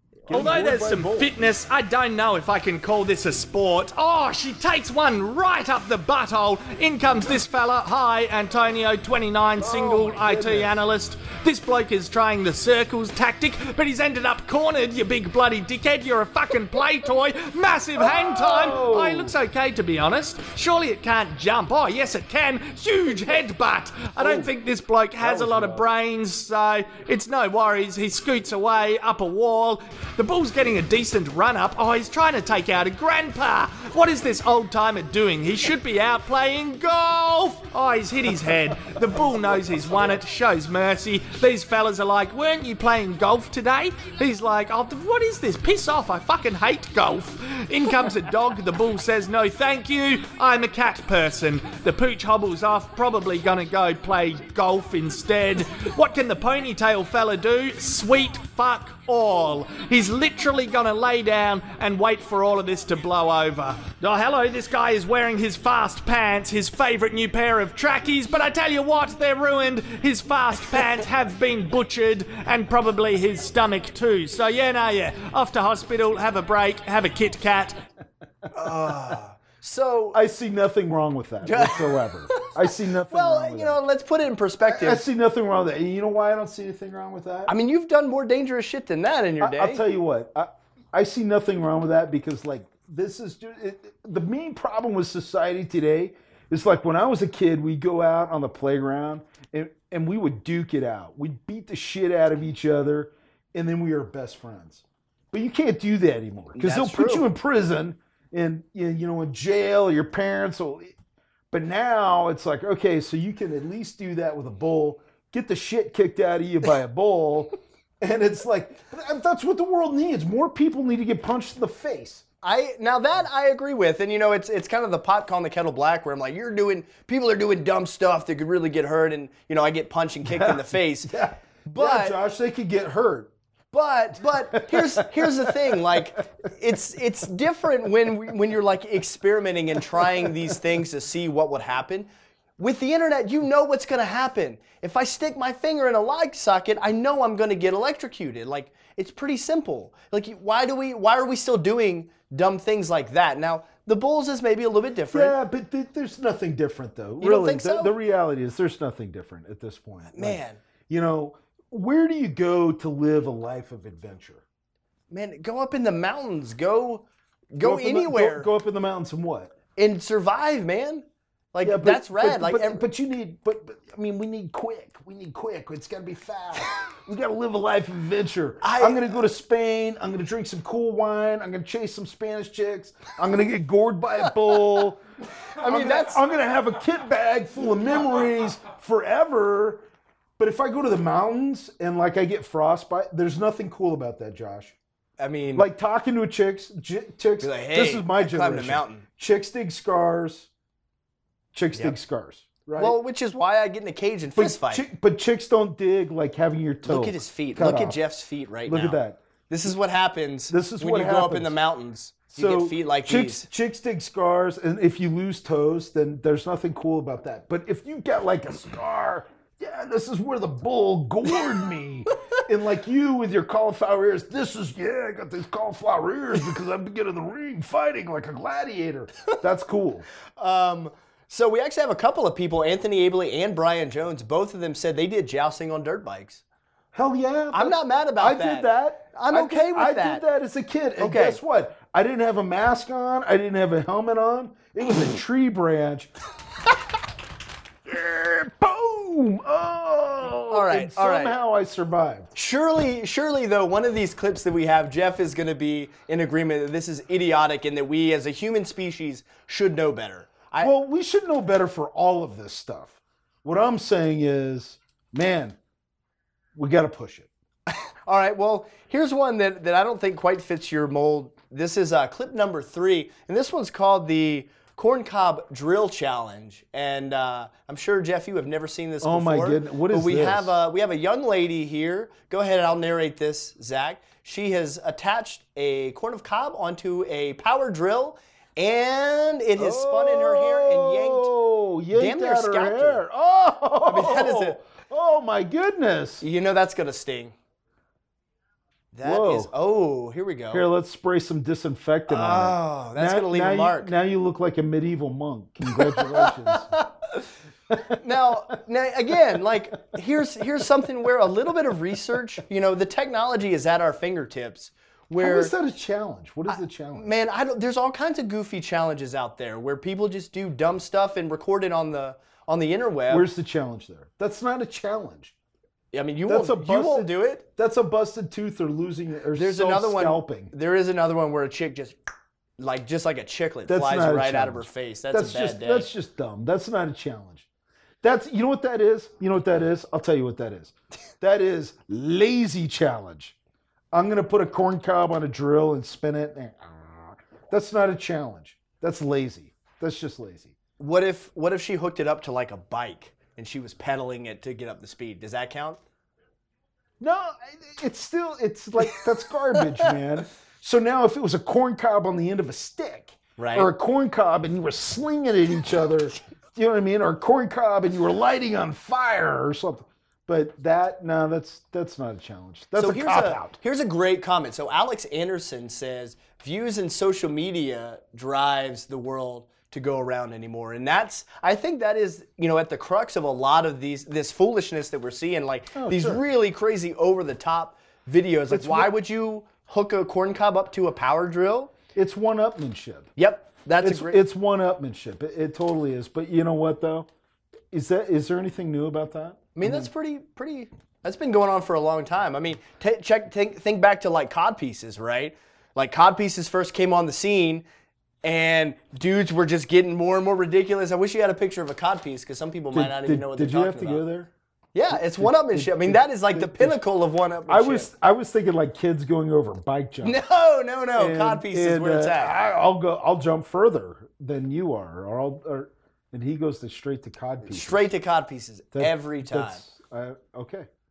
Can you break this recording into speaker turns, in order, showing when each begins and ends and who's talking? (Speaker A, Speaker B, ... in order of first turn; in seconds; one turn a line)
Speaker A: 0.3-1.3
Speaker B: 0.3-77.8
Speaker A: 9.6-10.7
Speaker A: 18.0-19.4
Speaker A: 24.1-24.5
Speaker A: 25.2-25.9
Speaker C: 78.5-80.2
Speaker A: 80.1-83.8
Speaker C: 81.4-82.5
Speaker C: 83.1-85.0
Speaker A: 84.6-87.5
Speaker C: 87.5-89.8
Speaker A: 89.4-110.9
Speaker C: 106.5-107.3
Speaker A: 111.5-122.2
Speaker C: 122.4-132.2
Speaker A: 130.2-133.3
Speaker C: 133.7-155.3
Speaker A: 134.3-136.2
Speaker A: 140.0-140.6
Speaker A: 155.1-164.4
Speaker C: 157.2-157.9
Speaker C: 160.1-160.6
Speaker C: 165.1-168.5
Speaker A: 167.6-169.5
Speaker C: 169.8-172.8
Speaker A: 171.6-185.0
Speaker C: 178.6-179.2
Speaker C: 184.3-184.8
Speaker C: 185.4-186.2
Speaker A: 185.6-189.8
Speaker A: 190.4-194.8
Speaker C: 195.2-195.7
Speaker A: 195.5-200.5
Speaker C: 197.4-199.0
Speaker A: 201.5-203.0
Speaker C: 202.8-204.8
Speaker A: 204.3-208.0
Speaker C: 206.8-213.5
Speaker A: 208.7-209.2
Speaker A: 210.5-211.6
Speaker A: 212.3-230.1
Speaker C: 230.4-236.4
Speaker A: 236.9-246.1
Speaker C: 237.5-240.2
Speaker C: 241.0-241.4
Speaker A: 247.8-252.3
Speaker C: 250.5-251.3
Speaker C: 252.3-260.7
Speaker A: 260.6-265.6
Speaker A: 266.6-267.3
Speaker C: 267.7-291.3
Speaker A: 279.0-280.5
Speaker A: 289.6-296.2
Speaker C: 291.9-293.0
Speaker C: 293.8-294.6
Speaker C: 296.2-297.3
Speaker C: 298.9-300.6
Speaker A: 299.0-299.5
Speaker A: 300.5-306.7
Speaker C: 302.1-303.9
Speaker C: 305.7-307.2
Speaker A: 307.7-308.0
Speaker C: 308.0-315.5
Speaker A: 315.2-317.1
Speaker C: 316.5-323.2
Speaker A: 323.1-325.3
Speaker C: 325.9-327.4
Speaker A: 326.3-330.5
Speaker C: 329.3-332.0
Speaker C: 332.6-335.9
Speaker A: 333.7-337.4
Speaker A: 338.0-343.3
Speaker A: 343.9-350.5
Speaker C: 350.8-355.8
Speaker A: 357.0-373.6
Speaker C: 363.4-363.7
Speaker C: 372.8-391.7
Speaker A: 385.7-386.2
Speaker A: 388.5-388.9
Speaker A: 391.9-393.1
Speaker C: 393.2-394.2
Speaker A: 393.8-397.1
Speaker A: 397.7-399.9
Speaker C: 399.6-407.6
Speaker C: 408.2-414.0
Speaker A: 412.7-414.3
Speaker C: 414.7-417.9
Speaker A: 414.9-416.8
Speaker A: 417.5-420.2
Speaker C: 420.0-422.4
Speaker A: 420.9-427.8
Speaker C: 427.4-429.6
Speaker A: 428.7-430.7